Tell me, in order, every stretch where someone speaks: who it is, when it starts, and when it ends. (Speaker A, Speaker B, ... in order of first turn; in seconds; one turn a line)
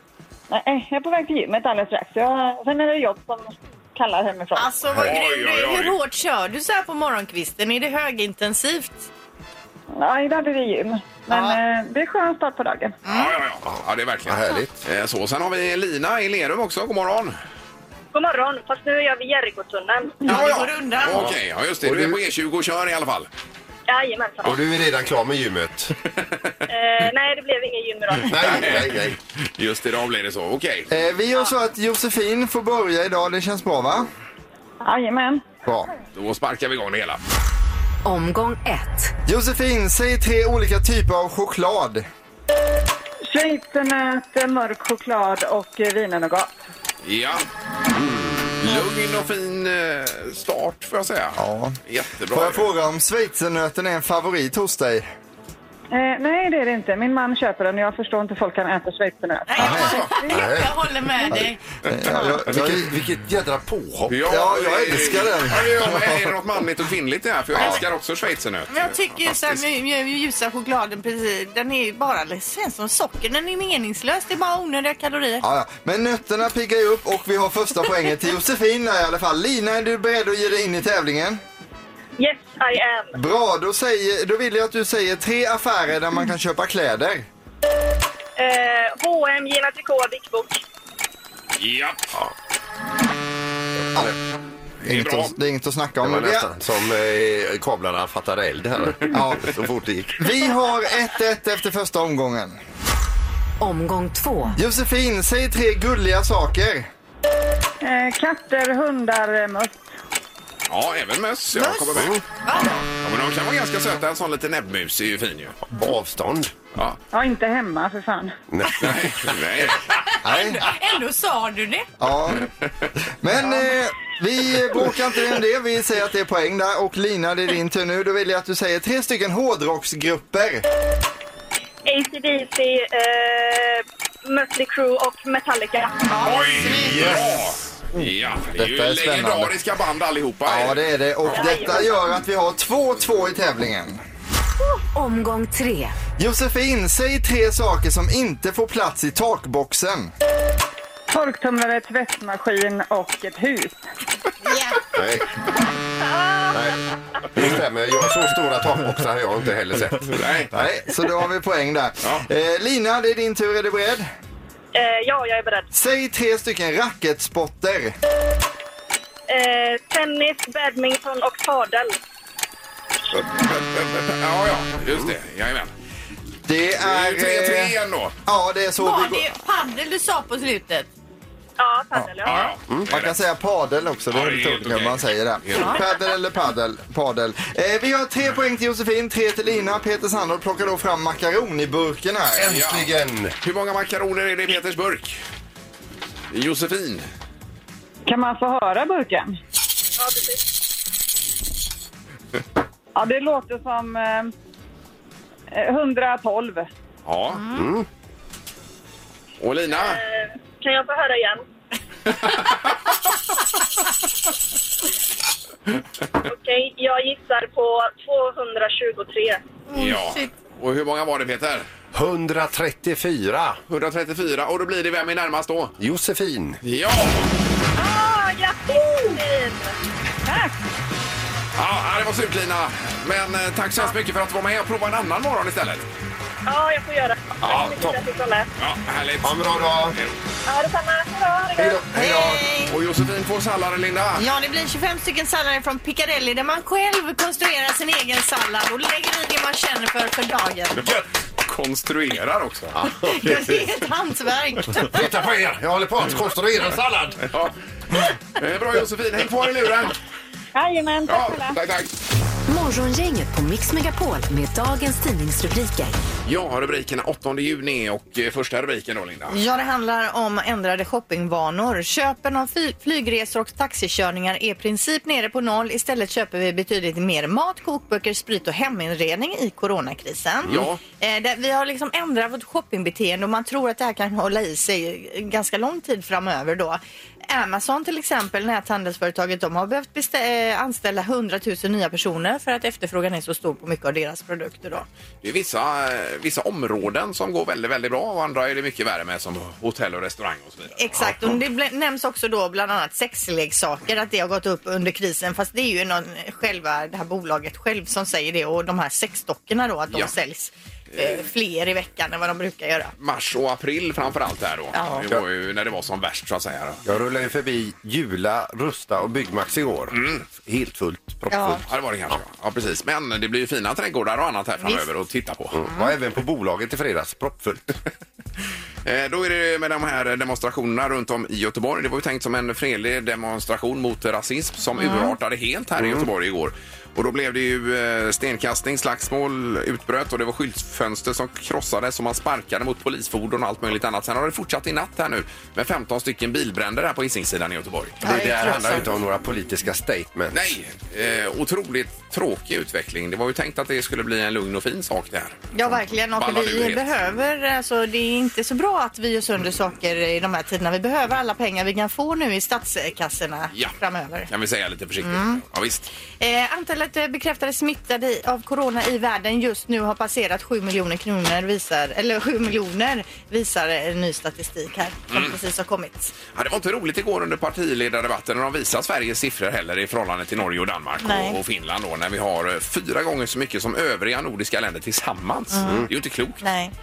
Speaker A: 0.5-4.7
Speaker B: 4.5-9.1
Speaker C: 5.0-6.0
Speaker A: 10.0-13.0
Speaker B: 11.3-11.6
Speaker B: 13.1-13.3
Speaker C: 13.1-17.3
Speaker D: 14.3-14.7
Speaker E: 18.1-20.2
Speaker B: 20.3-21.2
Speaker C: 20.3-23.3
Speaker D: 21.9-22.1
Speaker E: 23.9-24.5
Speaker D: 24.5-25.9
Speaker E: 26.7-28.6
Speaker D: 28.3-29.2
Speaker C: 28.4-29.0
Speaker C: 29.6-30.9
Speaker F: 30.9-34.1
Speaker A: 34.8-35.4
Speaker C: 36.1-37.2
Speaker G: 38.0-39.1
Speaker F: 39.3-42.0
Speaker A: 43.3-46.6
Speaker C: 47.0-47.5
Speaker C: 48.6-52.7
Speaker F: 51.4-51.8
Speaker F: 52.3-55.1
Speaker A: 55.9-60.5
Speaker B: 59.5-61.6
Speaker C: 59.9-60.1
Speaker D: 60.3-60.7
Speaker F: 61.9-62.9
Speaker D: 62.5-64.2
Speaker C: 64.1-69.6
Speaker F: 64.3-66.1
Speaker B: 68.7-75.4
Speaker F: 75.4-81.4
Speaker E: 82.2-83.2
Speaker F: 83.2-87.3
Speaker E: 88.4-90.6
Speaker C: 91.6-92.1
Speaker C: 94.8-95.3
Speaker F: 94.8-96.5
Speaker D: 96.0-99.8
Speaker F: 99.1-99.5
Speaker F: 100.1-102.6
Speaker G: 103.6-104.6
Speaker F: 104.6-106.9
Speaker A: 107.8-109.9
Speaker C: 110.7-112.2
Speaker B: 111.6-112.8
Speaker C: 113.0-115.6
Speaker D: 115.7-116.5
Speaker A: 117.1-118.3
Speaker D: 118.5-119.1
Speaker C: 118.8-119.9
Speaker B: 119.9-121.9
Speaker F: 120.2-120.7
Speaker F: 122.0-122.5
Speaker C: 122.5-122.9
Speaker F: 123.2-130.6
Speaker B: 123.4-123.7
Speaker E: 131.9-135.9
Speaker B: 136.1-137.3
Speaker C: 136.2-141.6
Speaker F: 138.0-139.6
Speaker F: 140.5-144.0
Speaker E: 141.3-141.9
Speaker G: 144.9-146.0
Speaker F: 146.2-150.1
Speaker A: 151.1-153.8
Speaker B: 154.4-154.8
Speaker D: 155.0-155.2
Speaker E: 156.1-156.7
Speaker D: 156.5-156.8
Speaker D: 157.3-160.0
Speaker C: 160.1-160.5
Speaker F: 160.5-164.1
Speaker E: 164.8-165.7
Speaker F: 165.7-167.9
Speaker E: 169.3-172.0
Speaker C: 173.1-175.7
Speaker F: 176.5-179.3
Speaker C: 176.8-178.2
Speaker B: 178.8-180.9
Speaker E: 181.6-182.4
Speaker C: 182.2-183.2
Speaker F: 182.9-192.6
Speaker C: 184.1-185.8
Speaker C: 192.4-192.9
Speaker D: 192.4-193.3
Speaker C: 193.4-195.2
Speaker C: 196.3-197.1
Speaker A: 198.1-199.4
Speaker E: 200.0-200.4
Speaker A: 203.0-204.3
Speaker A: 205.5-206.7
Speaker C: 207.1-207.4
Speaker D: 207.6-207.8
Speaker C: 209.4-210.0
Speaker E: 209.7-211.4
Speaker C: 212.2-212.7
Speaker E: 216.3-219.4
Speaker B: 219.7-220.3
Speaker C: 219.7-221.7
Speaker D: 221.9-223.6
Speaker C: 223.7-225.8
Speaker D: 225.8-226.6
Speaker C: 226.6-227.3
Speaker E: 227.8-229.8
Speaker A: 230.3-230.5
Speaker C: 231.6-235.9
Speaker E: 236.5-238.5
Speaker D: 237.4-237.9
Speaker C: 238.6-240.2
Speaker D: 239.2-240.0
Speaker E: 240.5-241.8
Speaker D: 241.6-242.4
Speaker B: 241.9-242.8
Speaker C: 242.7-244.2
Speaker B: 244.2-250.9
Speaker C: 250.8-252.8
Speaker D: 252.9-253.3
Speaker B: 253.0-255.1
Speaker D: 254.9-257.2
Speaker C: 258.4-259.9
Speaker A: 260.6-261.4
Speaker C: 261.1-261.9
Speaker G: 262.5-265.9
Speaker C: 266.3-269.4
Speaker B: 269.3-294.8
Speaker C: 280.5-280.8
Speaker C: 295.2-300.9
Speaker B: 300.8-312.9
Speaker C: 313.0-316.8
Speaker B: 314.7-315.1
Speaker D: 316.9-319.9
Speaker C: 319.9-320.2
Speaker D: 320.5-321.2
Speaker B: 321.3-321.6
Speaker C: 321.5-325.6
Speaker B: 324.6-324.9
Speaker D: 325.7-327.6
Speaker C: 328.9-348.0
Speaker B: 334.8-335.1
Speaker B: 348.0-348.9
Speaker D: 348.1-350.4
Speaker C: 350.3-355.5
Speaker B: 355.5-364.3
Speaker C: 356.2-356.9
Speaker C: 364.3-365.9
Speaker B: 365.0-365.4
Speaker B: 366.2-376.1
Speaker C: 375.1-375.4
Speaker C: 376.3-386.4
Speaker B: 381.0-381.4
Speaker B: 385.5-385.9
Speaker B: 386.4-386.7